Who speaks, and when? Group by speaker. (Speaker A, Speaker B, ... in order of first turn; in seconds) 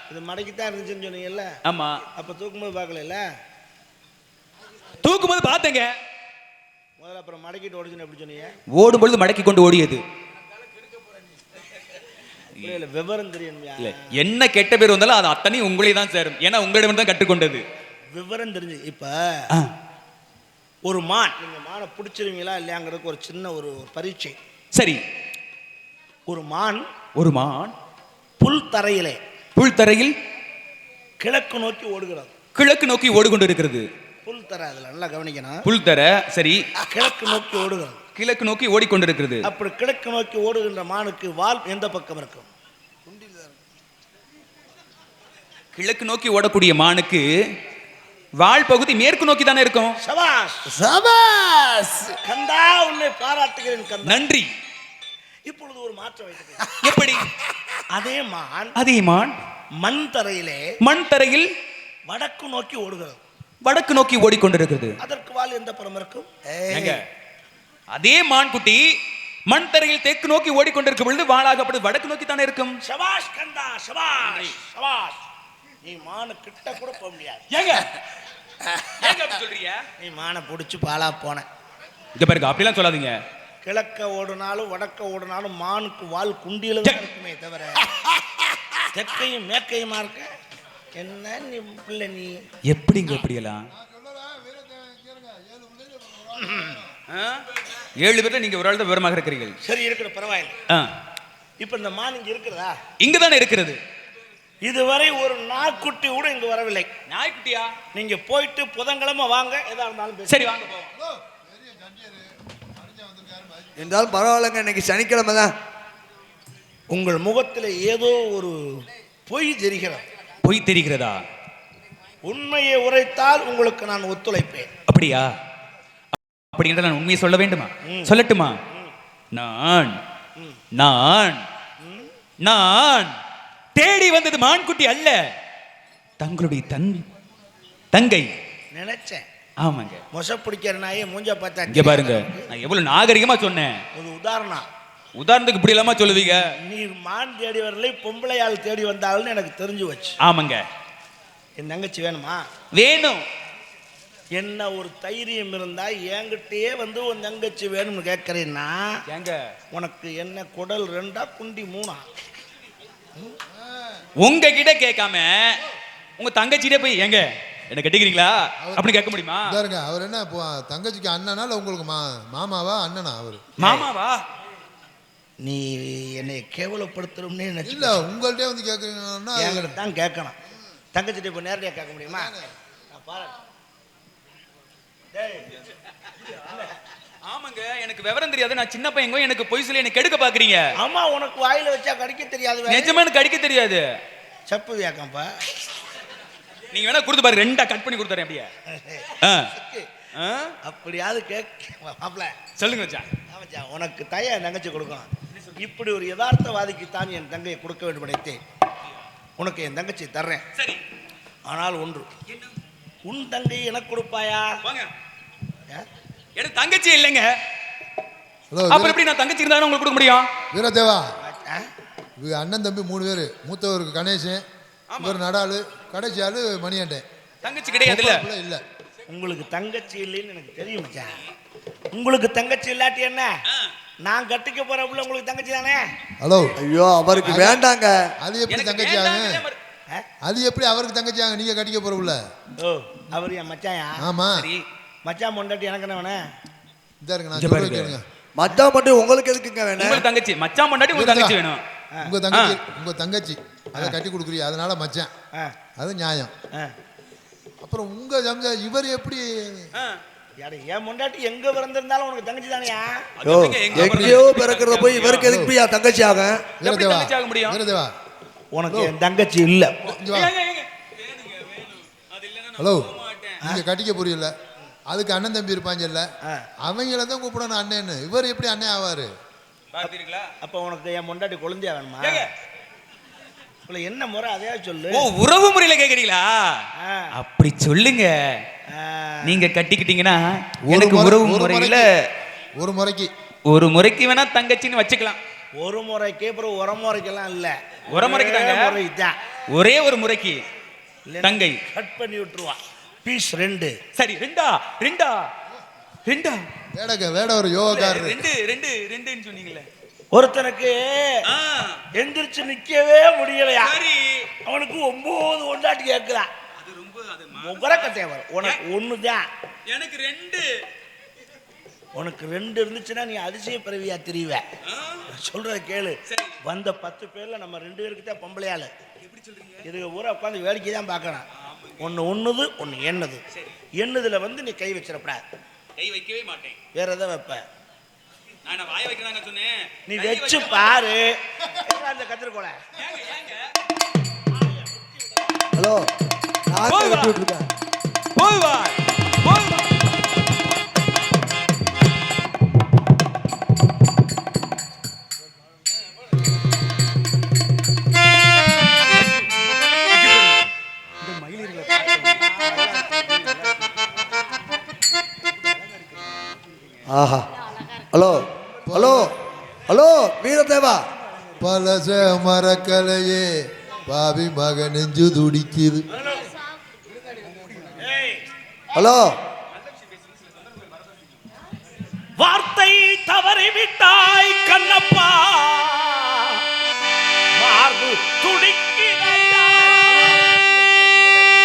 Speaker A: 0.1-1.5, 2.1-3.2, 7.0-8.6, 12.6-14.0, 18.1-19.4, 20.8-24.4, 26.3-26.8, 28.4-29.2, 31.2-32.3, 34.2-35.6, 36.8-38.0, 39.5-42.5, 50.0-50.7, 52.3-54.2, 55.5-56.8, 57.9-58.8, 59.8-60.6, 62.1-63.2, 65.0-67.0, 72.8-75.2, 75.8-77.5, 80.0-81.5, 83.6-87.9, 88.9-90.3, 90.9-92.4, 99.6-100.6, 101.6-102.8, 104.6-106.9, 107.9-110.5, 116.9-120.0, 122.2-124.7, 127.9-128.2, 131.8-132.1, 138.7-139.2, 140.1-142.5, 143.9-144.7, 146.4-150.2, 151.6-152.4, 154.3-159.0, 159.7-162.1, 173.6-173.9, 175.4-178.1, 179.4-180.3, 180.9-182.3, 182.9-183.3, 185.1-185.5, 190.8-193.0, 194.5-195.3, 198.7-199.9, 200.7-202.4, 203.3-208.4, 209.4-210.4, 211.5-212.1, 213.0-214.5, 221.2-221.7, 229.1-231.2, 231.9-233.3, 234.0-235.8, 242.6-244.0, 245.1-246.2, 251.9-252.2, 260.4-263.0, 268.5-269.8, 279.8-282.3, 283.6-285.1, 286.8-287.1, 288.7-289.5, 295.6-299.1, 301.1-303.8, 310.1-311.2, 312.0-313.8, 314.4-316.3, 317.4-319.3, 321.9-324.4, 325.1-328.7, 329.6-331.2, 331.8-333.2, 333.8-335.2, 336.7-337.4, 339.9-342.6, 344.3-345.5, 362.4-363.6, 375.9-376.3, 377.7-378.2, 382.2-386.4, 387.4-390.1
Speaker B: 1.7-2.0, 5.0-5.9, 8.7-10.0, 13.8-17.6, 24.7-25.0, 27.2-27.7, 29.6-30.1, 32.5-33.9, 35.6-36.6, 38.1-39.5, 45.7-47.3, 48.4-50.0, 54.0-54.5, 56.8-57.3, 58.8-59.4, 60.8-61.5, 63.6-65.0, 66.7-67.0, 67.9-68.9, 69.5-72.8, 74.2-74.5, 77.5-77.9, 79.0-79.8, 82.2-83.2, 92.7-93.7, 97.1-99.6, 103.0-103.8, 107.1-107.7, 110.3-110.9, 120.4-121.2, 124.9-125.3, 126.5-128.6, 129.3-129.9, 130.8-131.4, 132.4-133.1, 133.8-135.2, 136.2-137.1, 137.9-138.3, 139.6-140.0, 141.7-143.8, 145.2-146.4, 150.2-150.7, 152.8-153.2, 159.1-159.4, 164.2-165.6, 166.2-169.5, 173.6-174.2, 187.3-190.7, 192.7-193.8, 196.7-198.5, 199.2-199.5, 200.2-200.5, 202.6-203.1, 205.3-205.6, 210.6-210.8, 212.3-212.6, 214.6-214.9, 216.4-217.3, 218.7-220.3, 224.9-225.2, 227.4-228.2, 237.1-237.6, 238.5-239.6, 244.4-244.6, 247.3-248.0, 249.8-251.6, 252.3-252.6, 259.8-260.0, 263.2-265.3, 266.6-267.6, 269.9-273.4, 279.7-280.3, 282.0-282.3, 284.9-286.6, 287.1-288.4, 289.2-291.9, 293.5-295.2, 297.9-298.8, 299.5-300.4, 301.2-301.6, 303.9-305.3, 306.1-306.4, 307.7-309.7, 311.3-311.8, 313.6-314.2, 316.6-318.6, 319.7-320.5, 324.7-325.1, 326.1-326.4, 329.0-329.7, 331.4-331.9, 333.3-333.6, 335.8-336.6, 338.4-340.8, 342.8-343.4, 346.7-347.2, 348.1-349.7, 359.0-359.3, 359.9-360.5, 361.0-362.7, 365.4-366.8, 379.5-381.2
Speaker C: 50.8-52.1, 113.8-115.5, 236.6-237.9, 248.3-250.0, 263.2-266.5, 345.6-345.9, 346.5-347.5, 366.9-367.3, 367.9-369.1, 369.7-370.8, 378.7-379.1
Speaker D: 93.7-96.9, 111.0-113.9, 169.5-173.5, 177.7-179.8, 182.1-182.4, 218.5-219.0, 220.5-221.1, 222.2-224.4, 225.0-227.1, 227.8-228.6, 236.2-236.6, 238.2-239.4, 240.2-242.2, 244.0-244.4, 247.0-248.0, 250.9-251.4, 252.0-255.1, 255.8-256.3, 257.6-259.7, 263.7-264.2, 265.2-265.5, 266.6-267.9, 269.9-270.3, 272.6-274.3, 274.9-276.1, 276.6-279.1, 290.7-291.9, 292.6-293.1, 306.7-308.2, 368.7-369.0, 371.4-375.9